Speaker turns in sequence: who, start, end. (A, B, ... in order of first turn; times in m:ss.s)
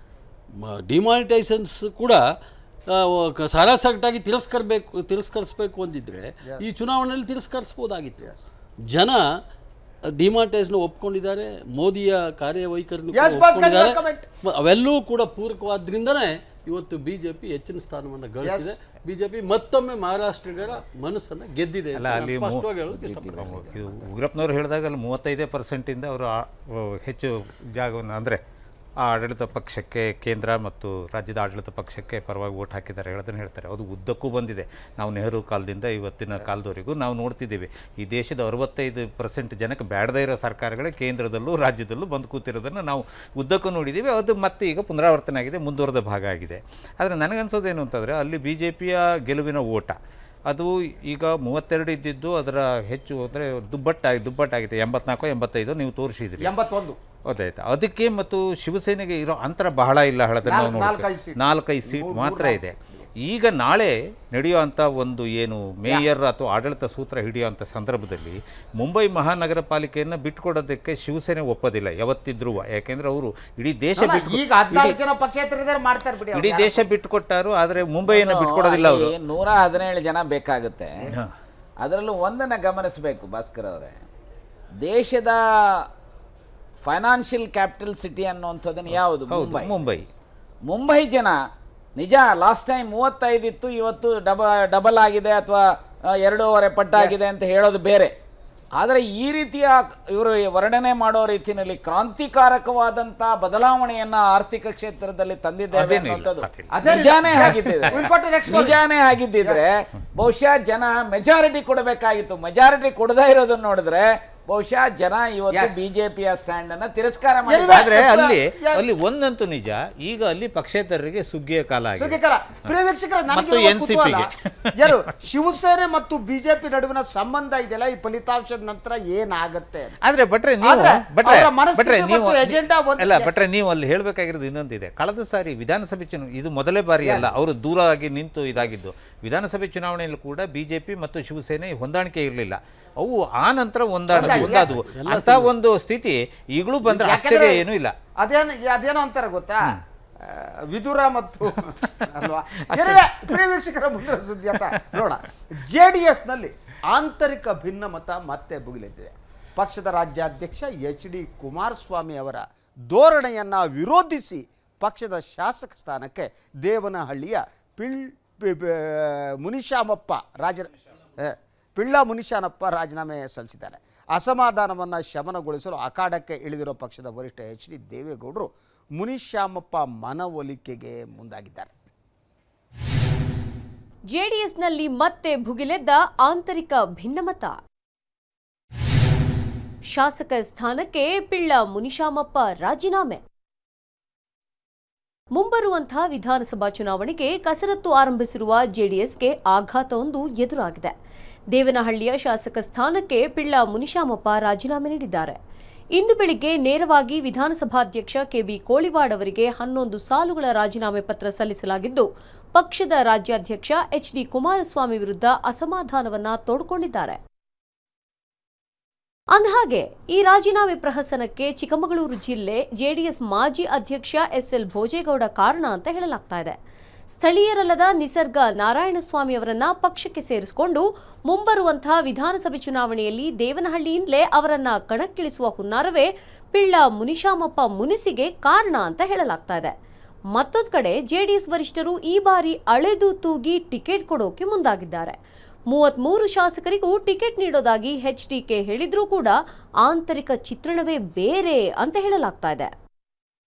0:00.6-0:02.2 A
0:02.9-0:08.4 A
0:08.9-0:09.2 A
0:10.2-0:23.6 A
0:13.1-0:14.3 B
0:18.4-0:18.7 B
0:22.0-0:22.7 C
0:22.9-0:24.1 D
0:23.4-0:28.4 C
0:29.0-0:50.0 C
0:50.5-0:56.5 C
0:56.4-0:57.0 B
0:57.3-1:15.0 C
1:00.4-1:03.1 B
1:14.0-1:16.9 B
1:16.4-1:19.1 C
1:18.1-1:21.0 D
1:21.8-1:24.0 D
1:24.8-1:25.4 D
1:26.8-1:29.8 D
1:29.3-1:30.1 C
1:30.7-1:31.4 D
1:32.0-1:38.1 D
1:38.8-1:57.8 D
1:45.7-1:48.1 C
1:46.7-1:48.8 B
1:55.5-1:55.8 B
1:57.5-1:58.9 B
1:57.7-2:02.2 C
2:02.0-2:09.9 B
2:03.3-2:05.0 C
2:10.0-2:27.9 C
2:10.6-2:13.4 B
2:17.0-2:17.3 B
2:24.1-2:24.8 B
2:24.2-2:25.5 A
2:26.8-3:01.8 B
2:32.7-2:33.0 C
3:04.1-3:07.6 E
3:09.9-3:13.2 E
3:15.4-3:20.9 E
3:21.5-3:25.4 E
3:26.0-3:37.2 E
3:39.3-3:46.6 E
3:47.1-3:59.7 E
4:00.3-4:05.2 E
4:05.7-4:12.7 E